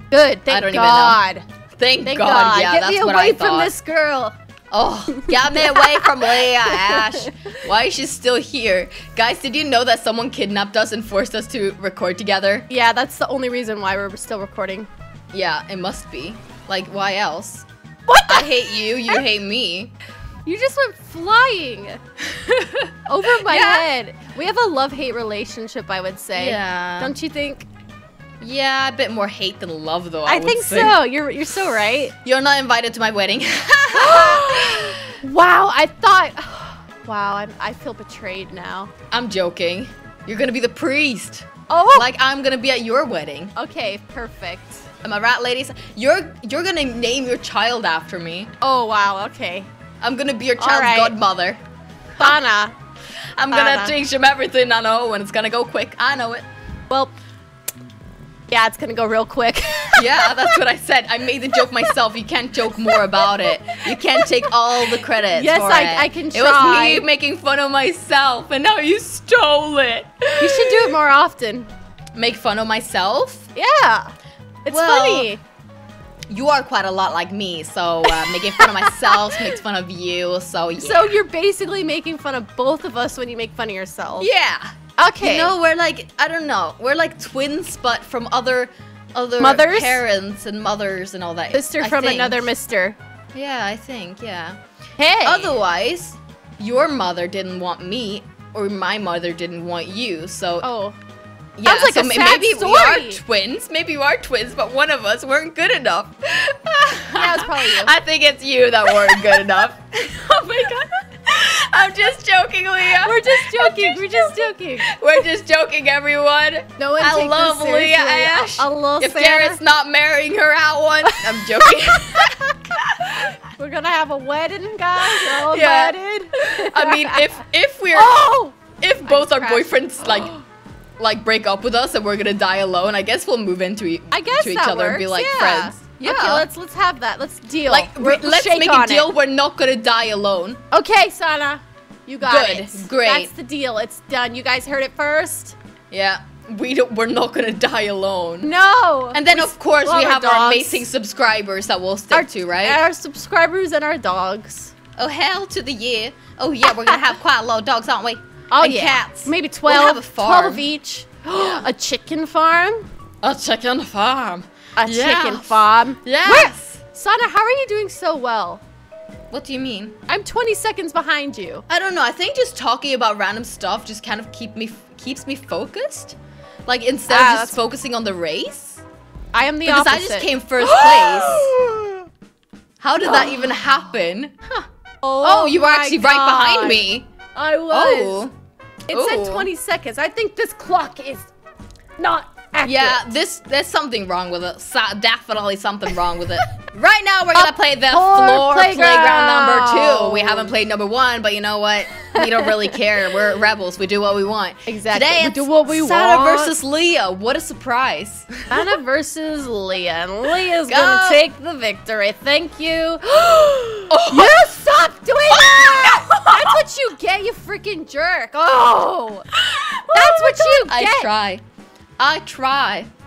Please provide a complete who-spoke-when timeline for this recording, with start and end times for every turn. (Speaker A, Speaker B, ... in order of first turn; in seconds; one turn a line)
Speaker A: 0.1-1.5
Speaker B: 0.5-1.2
Speaker B: 1.8-3.7
Speaker A: 2.0-4.4
Speaker B: 4.7-12.7
Speaker A: 5.2-7.3
Speaker A: 12.7-14.9
Speaker B: 15.3-17.7
Speaker A: 18.1-19.2
Speaker B: 18.3-19.9
Speaker A: 20.4-22.0
Speaker B: 22.4-22.7
Speaker A: 23.1-27.7
Speaker B: 23.4-23.9
Speaker B: 26.4-27.1
Speaker B: 28.4-31.0
Speaker A: 30.3-32.1
Speaker B: 32.2-35.2
Speaker A: 34.0-38.9
Speaker B: 39.1-43.5
Speaker A: 41.7-42.1
Speaker A: 43.6-44.8
Speaker B: 45.0-48.5
Speaker A: 48.6-49.7
Speaker B: 50.0-51.6
Speaker A: 50.6-51.2
Speaker A: 52.2-52.8
Speaker B: 53.4-56.5
Speaker A: 53.5-54.0
Speaker A: 58.5-60.6
Speaker B: 60.0-70.9
Speaker A: 62.9-64.5
Speaker A: 65.1-67.1
Speaker A: 70.4-71.7
Speaker B: 72.2-73.5
Speaker A: 73.5-74.1
Speaker A: 74.7-75.4
Speaker B: 74.7-75.3
Speaker B: 76.3-81.1
Speaker A: 78.1-79.4
Speaker A: 80.8-84.3
Speaker B: 84.2-92.5
Speaker A: 85.0-85.5
Speaker A: 89.4-90.0
Speaker A: 91.5-93.0
Speaker B: 93.3-94.6
Speaker A: 95.0-95.6
Speaker B: 95.2-100.7
Speaker A: 100.6-101.0
Speaker B: 101.6-123.3
Speaker A: 101.7-103.2
Speaker A: 107.1-107.9
Speaker A: 109.0-109.4
Speaker A: 113.0-115.0
Speaker A: 116.8-119.6
Speaker A: 121.0-127.3
Speaker B: 125.0-128.2
Speaker A: 127.9-130.3
Speaker B: 128.8-130.4
Speaker B: 131.0-136.5
Speaker A: 134.1-139.1
Speaker B: 137.7-140.6
Speaker A: 140.7-145.6
Speaker B: 142.2-143.3
Speaker B: 145.9-148.5
Speaker A: 148.4-150.9
Speaker B: 149.1-152.8
Speaker A: 152.1-154.7
Speaker B: 155.0-160.7
Speaker A: 158.5-162.8
Speaker B: 161.3-161.6
Speaker B: 163.2-166.8
Speaker A: 164.8-168.6
Speaker B: 169.3-170.0
Speaker A: 170.1-171.7
Speaker B: 171.7-178.8
Speaker A: 177.1-177.6
Speaker A: 179.3-182.1
Speaker B: 179.7-181.5
Speaker B: 182.8-184.7
Speaker A: 183.0-183.4
Speaker A: 185.0-186.8
Speaker B: 185.2-187.1
Speaker A: 187.3-188.2
Speaker B: 187.7-188.3
Speaker A: 188.9-191.3
Speaker B: 188.9-189.5
Speaker A: 192.0-193.1
Speaker B: 192.6-208.4
Speaker A: 197.3-200.5
Speaker A: 202.2-202.5
Speaker A: 204.7-206.5
Speaker A: 208.5-219.3
Speaker B: 210.7-211.2
Speaker B: 213.9-214.5
Speaker B: 215.3-216.5
Speaker B: 219.4-221.4
Speaker A: 219.9-221.1
Speaker B: 222.0-222.9